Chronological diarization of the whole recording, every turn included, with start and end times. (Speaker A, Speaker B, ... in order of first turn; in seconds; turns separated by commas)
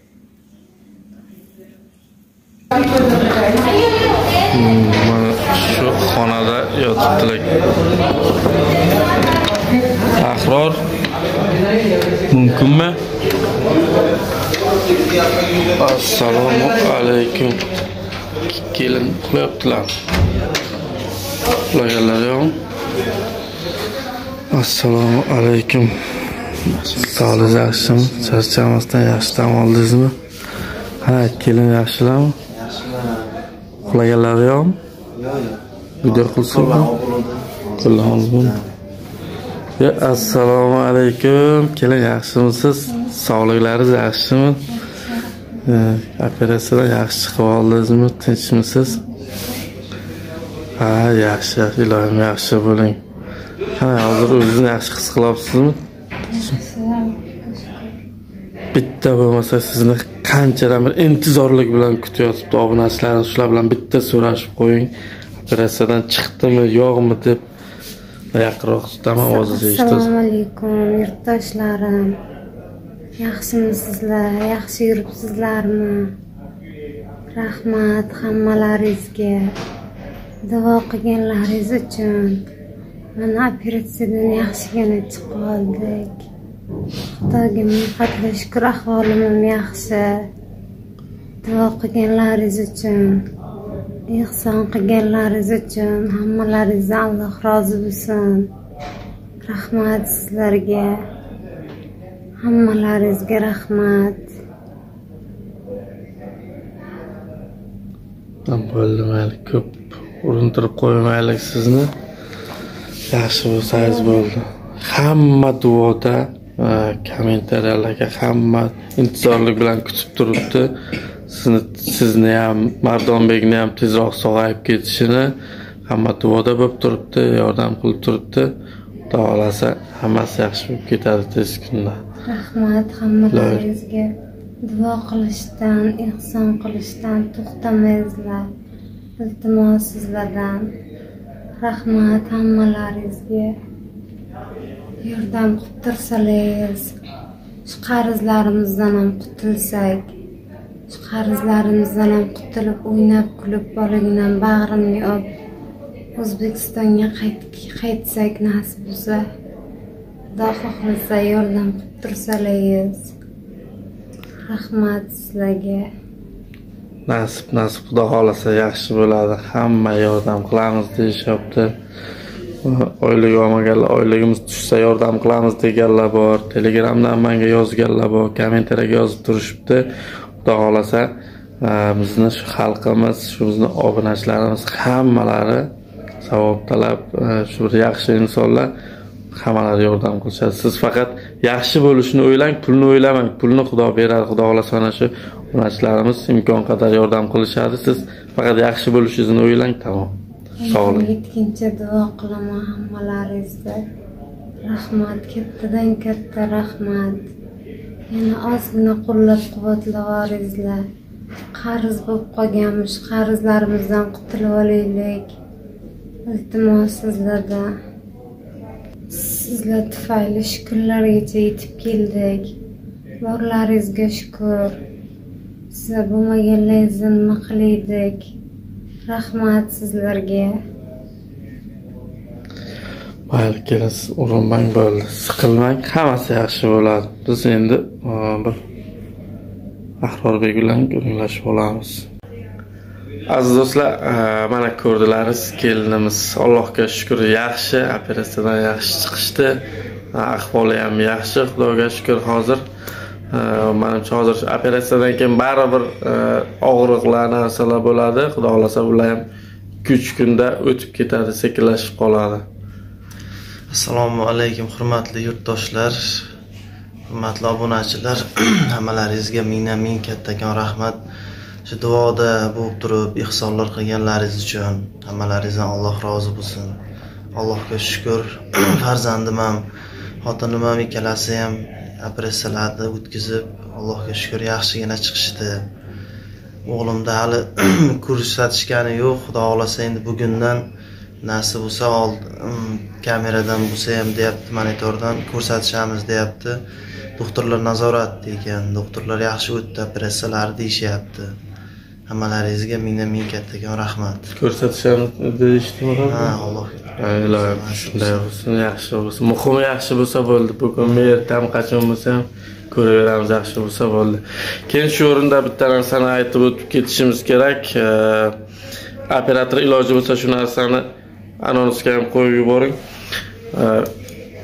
Speaker A: 4.5-7.5, Speaker A: 10.2-10.8, Speaker A: 12.3-13.0, Speaker A: 15.8-17.6, Speaker A: 18.5-19.9, Speaker A: 21.7-22.6, Speaker A: 24.5-25.9, Speaker B: 26.8-28.5, Speaker A: 26.9-30.1, Speaker A: 31.0-32.4, Speaker B: 32.5-33.3, Speaker A: 33.9-34.8, Speaker B: 35.1-38.6, Speaker A: 36.0-36.9, Speaker A: 37.8-38.5, Speaker A: 39.8-44.7, Speaker A: 45.6-49.0, Speaker A: 50.8-53.0, Speaker A: 53.8-55.8, Speaker C: 56.3-57.9, Speaker A: 58.7-64.9, Speaker A: 65.5-67.4, Speaker A: 68.3-70.1, Speaker C: 69.2-72.1, Speaker C: 73.2-76.0, Speaker C: 77.3-79.5, Speaker C: 80.5-82.4, Speaker C: 83.2-86.2, Speaker C: 87.1-90.1, Speaker C: 91.4-93.2, Speaker C: 94.1-98.5, Speaker C: 99.4-100.9, Speaker C: 102.4-104.3, Speaker A: 108.5-111.9, Speaker A: 113.1-120.7, Speaker C: 113.7-114.2, Speaker A: 121.3-125.3, Speaker A: 125.9-128.5, Speaker A: 129.1-132.0, Speaker C: 132.3-134.1, Speaker A: 133.3-133.6, Speaker C: 134.6-138.4, Speaker C: 139.2-140.6, Speaker C: 141.6-143.5, Speaker C: 145.0-146.9, Speaker C: 147.7-150.1, Speaker C: 150.9-155.2, Speaker C: 156.2-159.2, Speaker C: 160.3-163.1, Speaker C: 164.5-165.8, Speaker A: 167.1-171.7, Speaker A: 172.6-179.9, Speaker A: 180.4-185.7, Speaker A: 186.2-188.7, Speaker A: 189.3-200.1, Speaker C: 200.6-203.8, Speaker A: 200.7-201.1, Speaker C: 204.7-207.2, Speaker C: 208.1-210.8, Speaker C: 211.6-215.3, Speaker C: 216.3-217.7, Speaker C: 219.1-222.6, Speaker C: 223.2-224.8, Speaker C: 225.7-228.3, Speaker C: 229.1-230.5, Speaker A: 233.3-238.6, Speaker A: 240.0-242.1, Speaker A: 243.3-249.6, Speaker A: 250.1-252.6, Speaker A: 253.3-259.2, Speaker A: 259.8-262.4, Speaker B: 263.7-266.3, Speaker B: 267.1-271.0, Speaker B: 271.7-276.8, Speaker B: 277.3-279.6, Speaker B: 280.2-285.6, Speaker B: 286.7-290.6, Speaker B: 291.2-296.6, Speaker B: 297.2-301.3, Speaker B: 302.1-304.3, Speaker A: 304.3-306.3, Speaker B: 306.1-308.2, Speaker A: 307.0-318.3, Speaker B: 310.8-311.1, Speaker A: 319.1-320.8, Speaker A: 321.4-322.8, Speaker A: 323.5-323.9